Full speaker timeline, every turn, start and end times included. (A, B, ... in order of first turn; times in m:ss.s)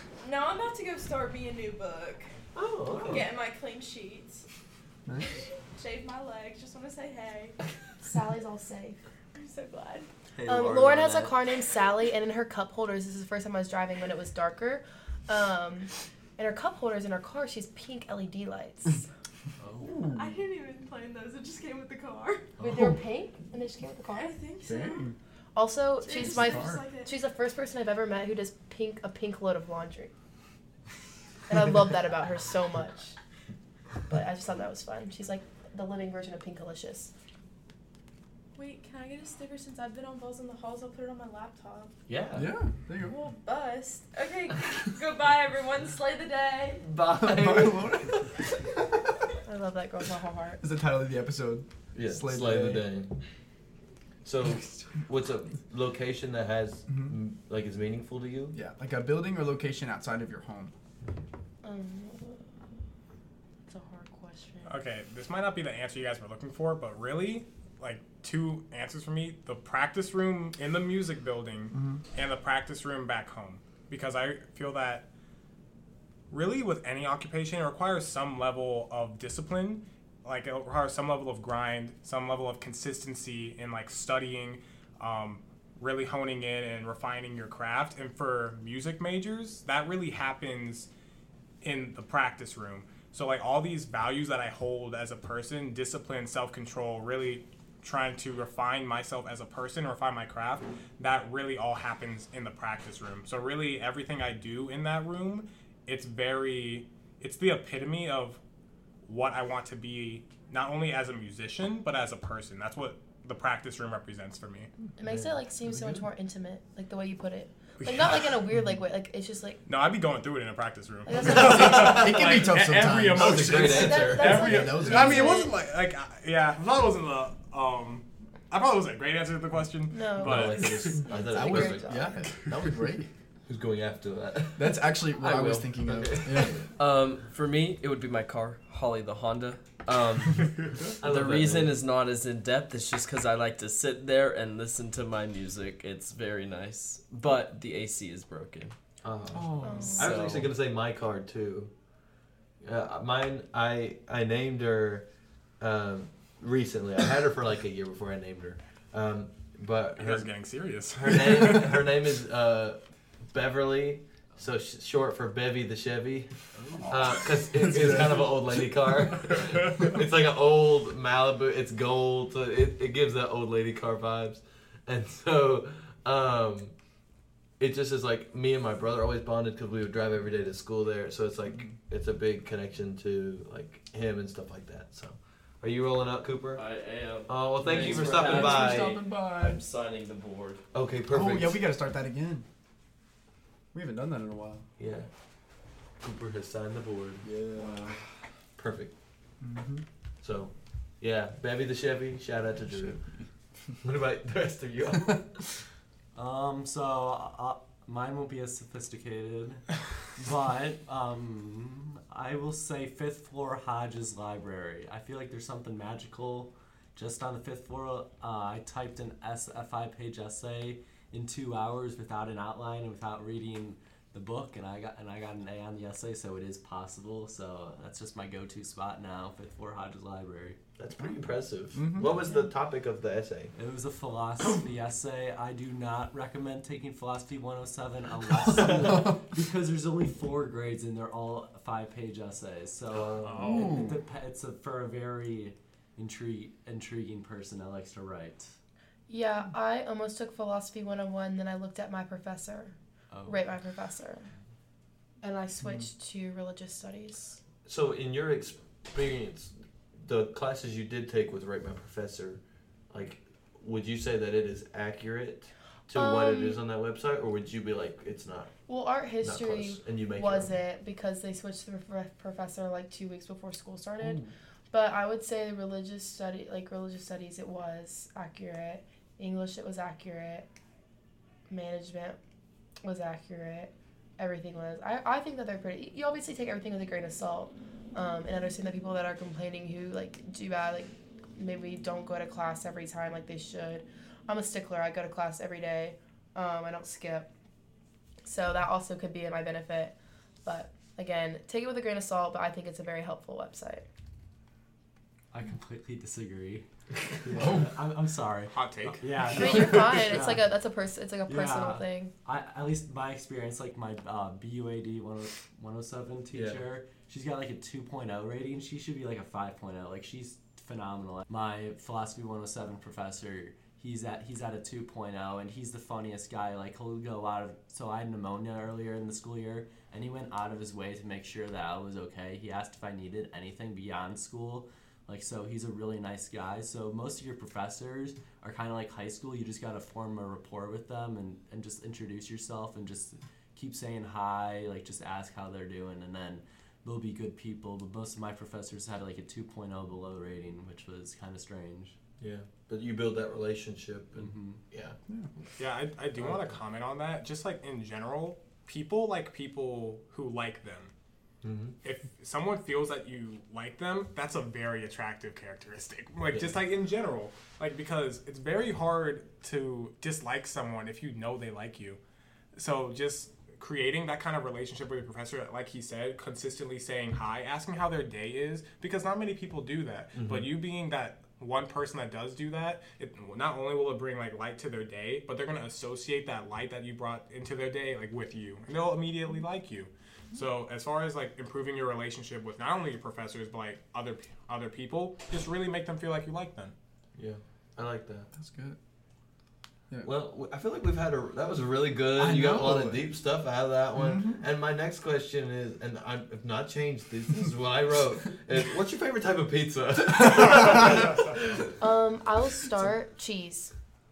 0:00.2-0:02.3 A
0:02.6-0:03.3 B
0:03.0-0:04.4 A
0:05.1-0:05.4 C
0:05.3-0:07.6 A
0:08.0-0:09.0 D
0:09.4-0:10.1 A
0:10.4-0:11.4 E
0:10.4-0:19.1 D
0:19.8-0:20.4 C
0:20.1-0:22.5 A
0:22.6-0:24.3 D
0:22.6-0:22.9 F
0:24.1-0:25.1 A
0:24.6-0:25.2 C
0:25.6-0:30.1 D
0:26.0-0:27.1 A
0:26.2-0:26.8 C
0:31.5-0:33.2 D
0:34.1-0:37.1 D
0:38.6-0:42.0 A
0:42.1-0:42.5 B
0:42.4-0:43.2 C
0:43.0-0:46.8 A
0:46.8-0:48.3 B
0:47.2-0:48.3 C
0:49.5-0:50.6 D
0:50.6-0:52.9 C
0:51.9-0:53.2 B
0:54.2-0:58.6 B
0:56.9-0:57.2 C
0:58.5-1:00.7 C
1:01.6-1:02.4 D
1:03.7-1:04.8 D
1:04.7-1:15.1 G
1:11.7-1:12.0 C
1:16.3-1:30.9 G
1:31.6-1:48.4 G
1:49.1-1:54.7 G
1:55.0-1:59.6 D
1:57.8-1:58.3 G
1:59.7-2:11.0 G
2:01.1-2:02.0 D
2:01.2-2:05.4 C
2:01.3-2:02.2 B
2:03.1-2:04.5 B
2:03.6-2:05.6 D
2:09.9-2:12.2 D
2:10.2-2:12.1 B
2:11.3-2:13.1 C
2:13.5-2:14.8 B
2:14.6-2:16.6 C
2:15.2-2:28.7 E
2:15.8-2:16.7 B
2:21.0-2:21.8 B
2:29.0-2:31.7 B
2:29.3-2:30.4 C
2:29.6-2:30.1 D
2:30.0-2:30.5 E
2:32.6-2:35.1 B
2:35.6-2:40.3 B
2:40.0-2:41.9 G
2:41.0-2:46.3 B
2:46.8-2:56.7 B
2:47.5-2:48.6 C
2:57.6-3:06.6 B
3:06.6-3:10.6 E
3:07.3-3:09.0 B
3:07.7-3:09.6 C
3:10.7-3:11.6 B
3:11.1-3:12.5 C
3:13.7-3:14.6 C
3:14.8-3:15.1 B
3:16.0-3:17.2 B
3:17.2-3:18.0 C
3:17.6-3:17.9 E
3:18.6-3:18.9 B
3:19.4-3:19.8 C
3:20.2-3:23.0 B
3:22.7-3:23.0 C
3:23.8-3:25.4 B
3:26.2-3:50.6 F
3:50.8-3:53.5 B
3:51.7-3:52.2 C
3:52.1-3:52.5 D
3:53.6-4:08.5 F
3:58.8-3:59.2 C
4:02.9-4:03.6 B
4:03.2-4:04.0 G
4:03.5-4:04.0 C
4:09.1-4:12.8 D
4:13.1-4:13.4 F
4:13.3-4:14.3 D
4:15.2-4:17.4 D
4:17.6-4:28.6 B
4:25.9-4:26.6 D
4:28.7-4:40.5 D
4:29.2-4:30.5 B
4:34.0-4:34.3 C
4:41.5-4:42.2 D
4:42.8-4:57.3 D
4:58.2-5:03.8 D
5:05.3-5:06.6 F
5:07.2-5:10.5 F
5:07.4-5:07.7 C
5:08.5-5:09.1 G
5:09.3-5:12.1 D
5:11.3-5:52.0 F
5:16.3-5:16.6 B
5:52.2-5:55.4 B
5:54.2-5:54.6 F
5:55.6-6:00.9 G
5:56.2-5:56.6 B
6:01.4-6:01.8 B
6:01.8-6:12.0 G
6:12.6-6:36.7 G
6:20.2-6:20.5 B
6:37.2-6:38.3 B
6:38.4-6:38.8 C
6:40.0-6:51.7 B
6:42.2-6:43.0 C
6:44.0-6:44.4 C
6:50.7-6:51.2 G
6:51.8-6:53.7 D